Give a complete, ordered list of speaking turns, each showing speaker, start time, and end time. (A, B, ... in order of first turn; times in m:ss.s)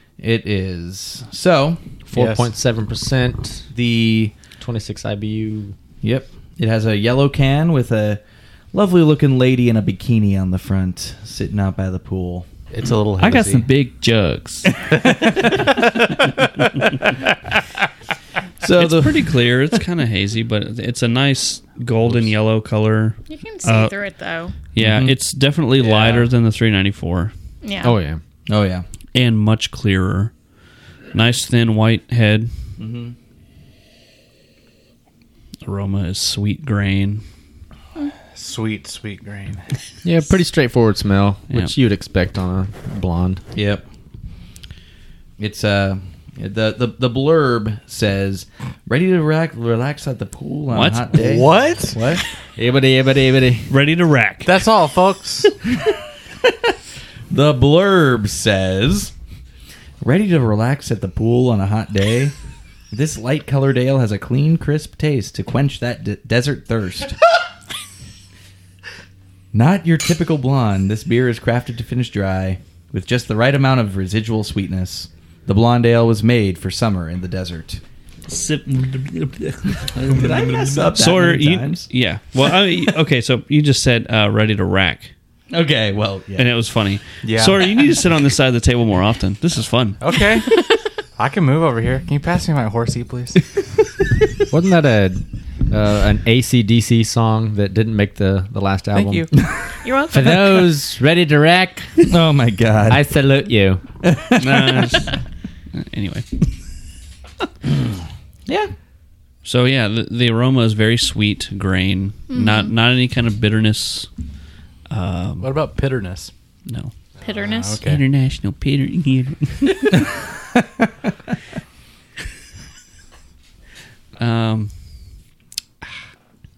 0:00.2-0:01.8 A
0:02.1-0:03.7 B
0:02.1-0:02.5 C
0:03.7-0:04.3 A
0:04.6-0:05.8 B
0:06.0-0:08.2 A
0:08.7-0:12.5 A
0:12.7-0:13.7 C
0:13.2-0:14.7 D
0:14.9-0:15.7 A
0:15.1-0:16.4 C
0:18.6-0:19.4 A
0:18.8-0:23.9 D
0:23.3-0:24.6 E
0:24.7-0:27.3 D
0:24.8-0:25.2 A
0:25.8-0:26.3 C
0:27.6-0:28.0 E
0:27.8-0:28.2 B
0:28.5-0:28.8 A
0:29.1-0:30.3 D
0:31.1-0:32.5 D
0:32.8-0:33.2 A
0:35.6-0:37.2 D
0:38.3-0:39.7 C
0:40.0-0:43.4 B
0:43.6-0:43.8 A
0:45.4-0:52.2 A
0:50.7-0:51.4 D
0:51.1-0:52.0 C
0:52.6-0:53.7 B
0:53.7-0:54.6 D
0:54.4-0:55.6 C
0:57.3-0:59.1 A
1:00.0-1:02.3 A
1:02.9-1:07.2 A
1:09.5-1:17.8 A
1:18.3-1:25.1 D
1:19.9-1:21.9 A
1:25.5-1:26.5 A
1:26.4-1:30.0 D
1:27.2-1:27.7 C
1:30.0-1:30.6 C
1:31.2-1:33.5 C
1:34.5-1:39.4 B
1:38.9-1:39.3 C
1:39.8-1:40.7 E
1:40.1-1:42.1 B
1:42.1-1:43.1 A
1:42.9-1:43.8 B
1:44.0-1:45.0 A
1:44.4-1:45.2 D
1:45.7-1:46.4 D
1:48.5-1:48.7 A
1:49.4-1:54.1 D
1:52.3-1:52.7 E
1:54.9-1:55.5 D
1:55.4-1:56.3 C
1:56.7-1:56.9 D
1:57.2-1:57.8 E
1:57.3-1:58.0 C
1:57.8-2:00.1 D
2:04.2-2:04.7 D